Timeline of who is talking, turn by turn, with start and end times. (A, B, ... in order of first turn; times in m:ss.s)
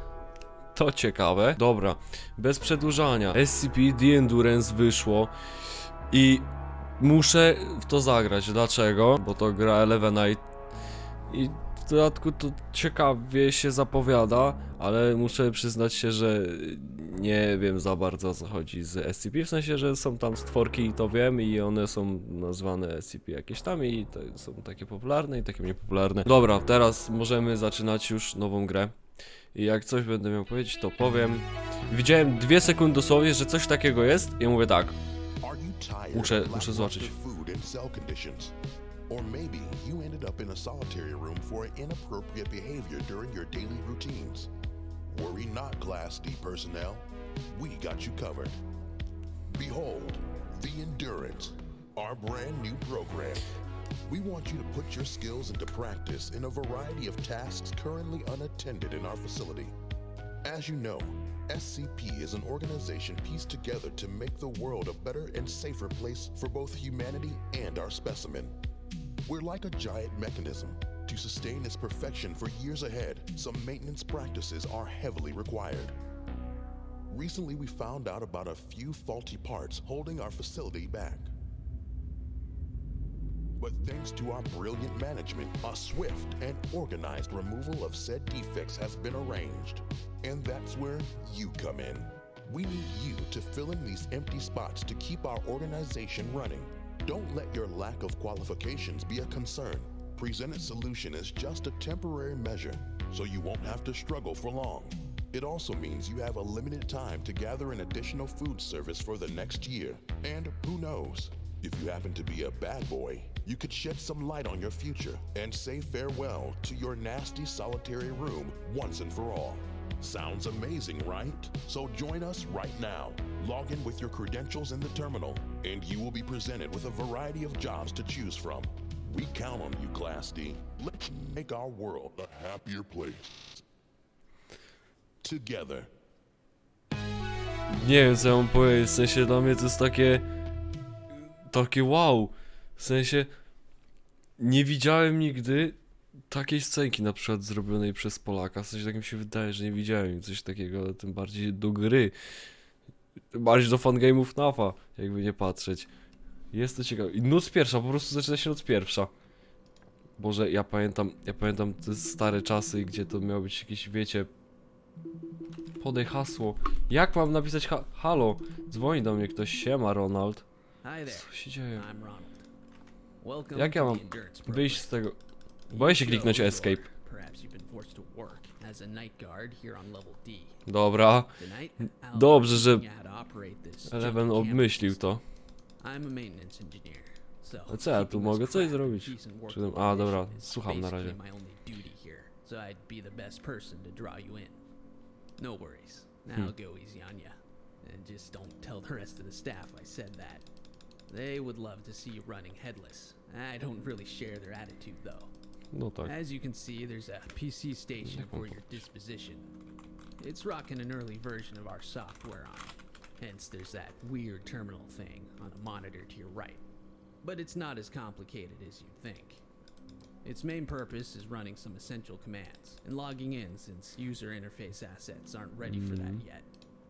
0:00.7-0:05.3 A
0:06.1-0:06.5 A
0:07.0-0:10.4 A
0:11.3-0:28.9 A
0:29.5-0:35.0 A
0:35.4-0:38.5 B
0:36.1-0:37.1 A
0:39.1-0:44.5 B
0:45.1-0:48.6 B
0:49.5-0:53.4 B
0:54.1-0:59.7 B
1:00.4-1:08.5 B
1:09.2-1:15.9 B
1:17.1-1:21.3 B
1:23.6-2:13.6 B
2:15.2-2:15.9 B
2:17.7-2:20.2 A
2:21.5-2:23.3 A
2:24.4-2:25.8 A
2:26.3-2:32.1 A
2:33.3-2:35.9 A
2:36.5-2:39.1 A
2:40.2-2:44.3 A
2:45.8-2:50.4 A
2:50.8-2:52.5 C
2:51.1-2:51.8 A
2:53.2-2:54.9 C
2:53.5-2:55.2 A
2:55.7-3:00.6 C
2:55.7-2:56.9 A
3:00.6-3:01.4 A
3:01.4-3:05.0 C
3:02.1-3:02.8 A
3:03.9-3:05.2 A
3:05.8-3:14.6 C
3:07.7-3:11.2 A
3:15.4-3:20.4 C
3:21.1-3:25.3 C
3:25.7-3:26.1 A
3:26.0-3:29.5 C
3:28.0-3:28.7 A
3:30.2-3:36.6 C
3:37.2-3:39.4 C
3:40.2-3:46.5 C
3:45.6-3:46.2 A